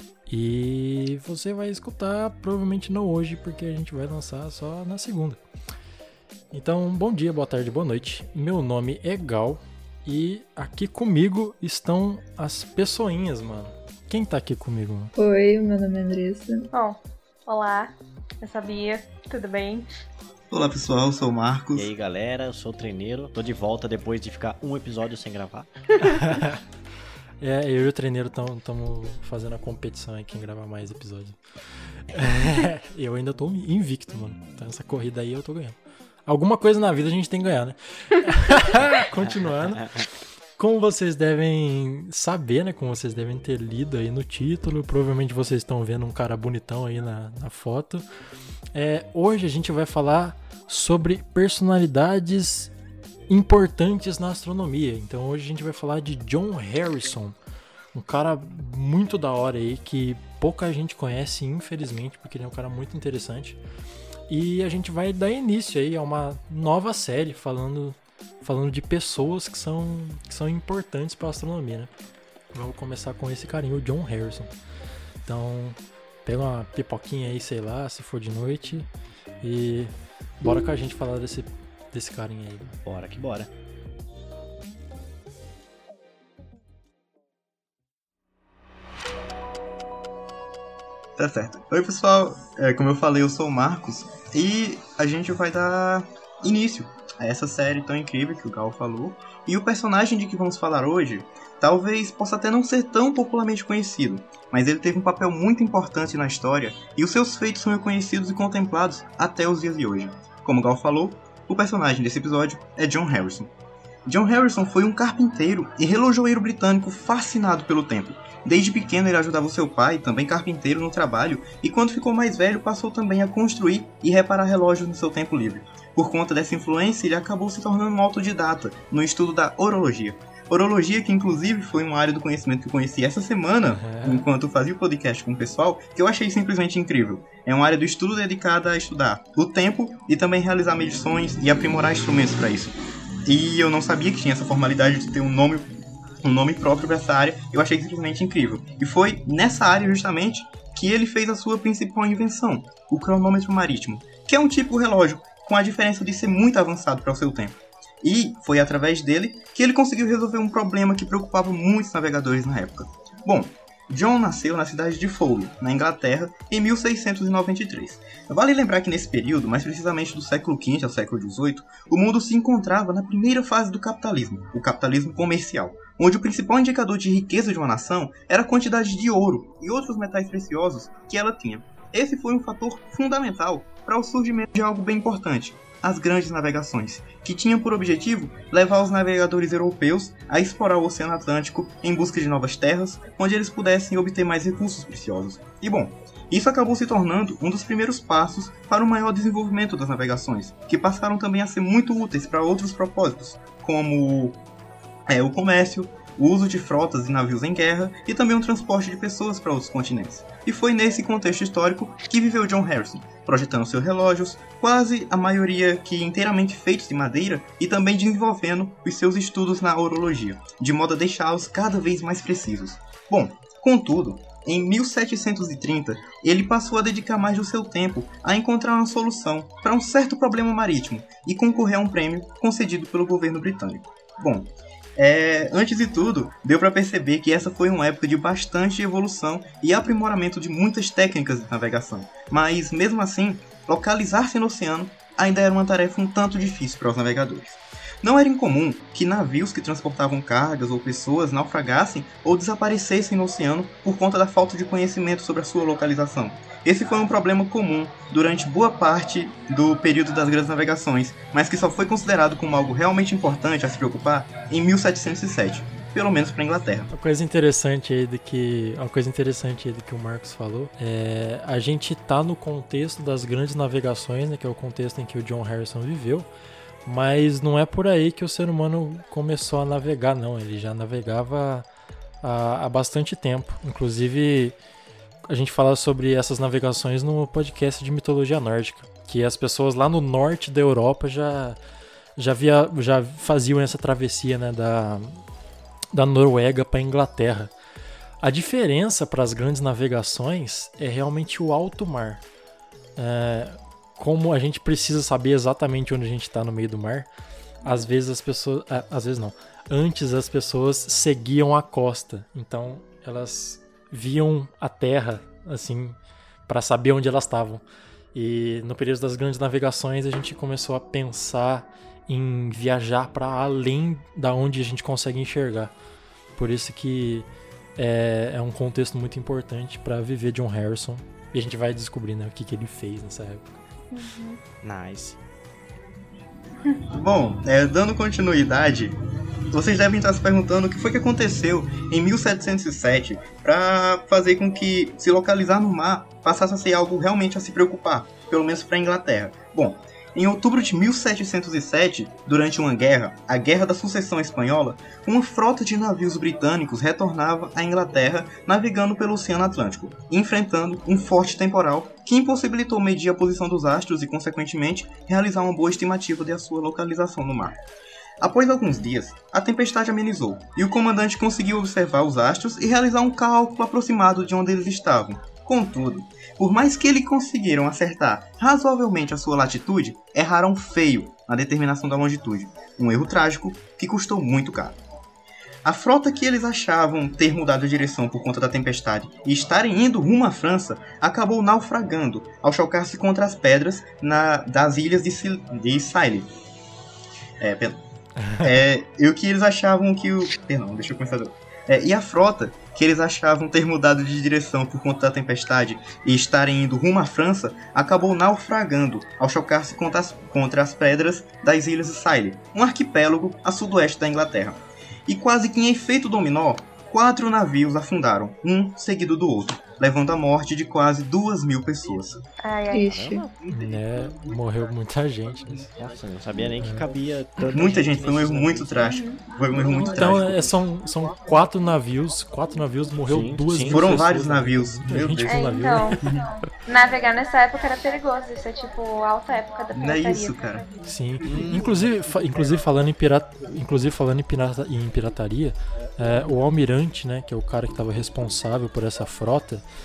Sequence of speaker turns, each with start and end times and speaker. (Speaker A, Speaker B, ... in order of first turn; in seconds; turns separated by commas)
Speaker A: 0.3-5.4, Speaker A: 6.5-15.1, Speaker B: 15.2-16.7, Speaker C: 16.7-19.9, Speaker D: 20.5-21.9, Speaker E: 21.8-25.7, Speaker A: 26.0-26.6, Speaker A: 27.4-48.0, Speaker A: 48.7-52.7, Speaker A: 53.3-57.4, Speaker A: 57.9-63.6, Speaker A: 64.3-71.9, Speaker A: 72.5-74.5, Speaker A: 75.2-78.9, Speaker A: 79.4-82.8, Speaker E: 82.9-83.5, Speaker D: 91.2-113.5, Speaker D: 114.0-145.7, Speaker A: 133.8-134.3, Speaker D: 146.2-204.4, Speaker D: 205.1-266.9, Speaker A: 266.9-276.3, Speaker A: 276.9-281.7, Speaker A: 282.2-284.6, Speaker A: 285.2-291.6, Speaker A: 292.2-295.2, Speaker A: 295.9-297.5, Speaker A: 298.2-302.2, Speaker A: 302.9-307.1, Speaker A: 307.6-317.6, Speaker A: 318.1-325.7, Speaker A: 326.4-333.6, Speaker C: 333.9-334.4, Speaker E: 334.6-335.2, Speaker D: 336.9-338.9, Speaker D: 339.5-367.6, Speaker D: 368.2-384.8, Speaker D: 385.6-396.3, Speaker D: 397.4-397.8, Speaker A: 398.2-398.5, Speaker D: 398.4-422.2, Speaker C: 422.4-423.0, Speaker B: 422.7-423.4, Speaker E: 422.8-423.3, Speaker A: 423.5-425.7, Speaker E: 425.8-428.9, Speaker A: 426.6-426.9, Speaker D: 427.5-430.6, Speaker C: 428.9-429.2, Speaker A: 429.9-436.1, Speaker E: 433.1-434.4, Speaker D: 433.7-435.4, Speaker C: 435.2-440.6, Speaker D: 439.7-440.7, Speaker A: 440.9-449.6, Speaker E: 441.2-441.7